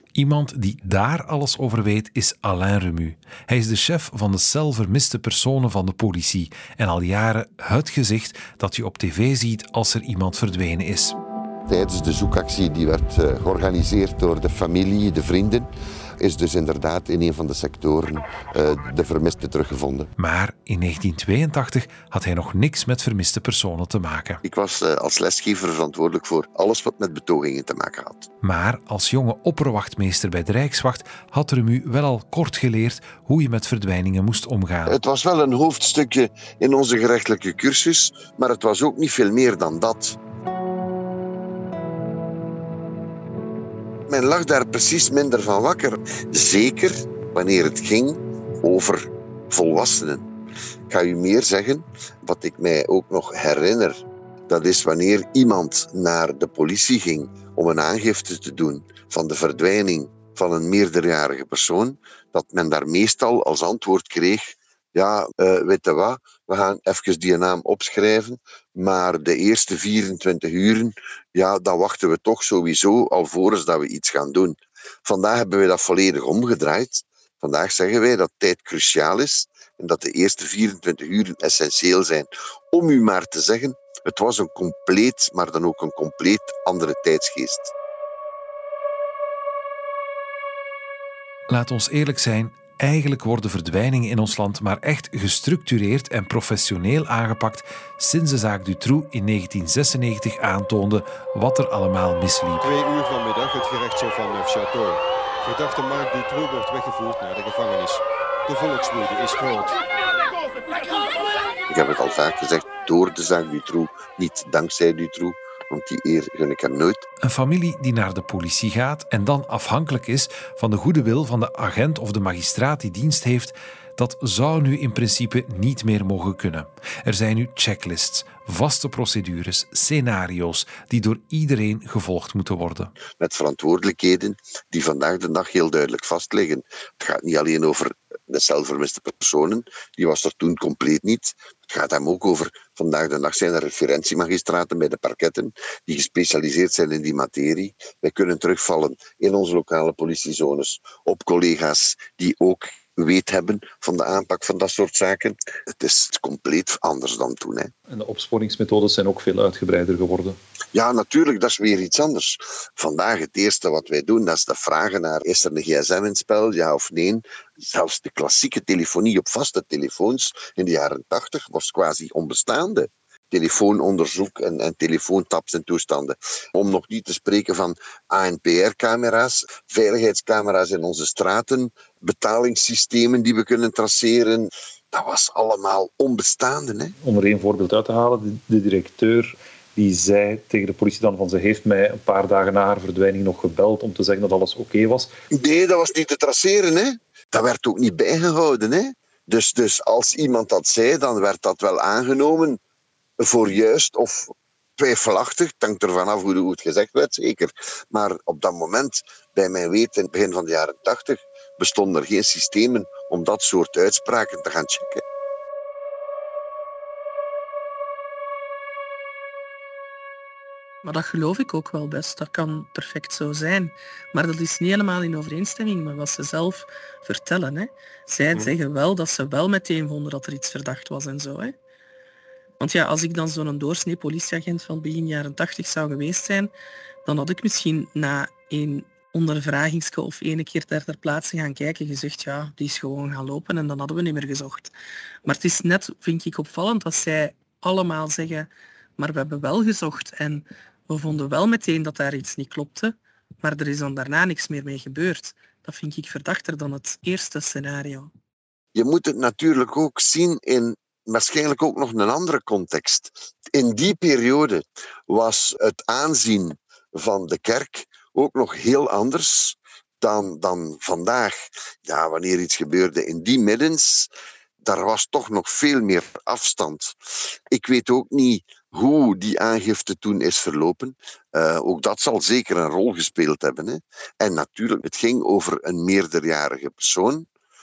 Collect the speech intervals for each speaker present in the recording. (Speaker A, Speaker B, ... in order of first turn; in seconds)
Speaker A: 0.1-11.2, 20.2-24.4, 28.4-35.0, 91.5-102.7, 117.2-132.9
Speaker B: 11.7-15.7, 16.2-20.1, 24.4-28.3, 34.9-40.1, 44.1-50.3, 50.9-87.7, 111.7-117.0, 133.2-157.7, 160.7-186.9, 195.3-202.6, 203.2-215.0, 258.7-274.1, 274.6-276.9, 277.5-287.2
Speaker C: 102.6-109.8
Speaker D: 157.9-160.4, 187.0-195.1
Speaker E: 220.8-231.6, 232.6-236.5, 237.0-244.7, 245.2-258.1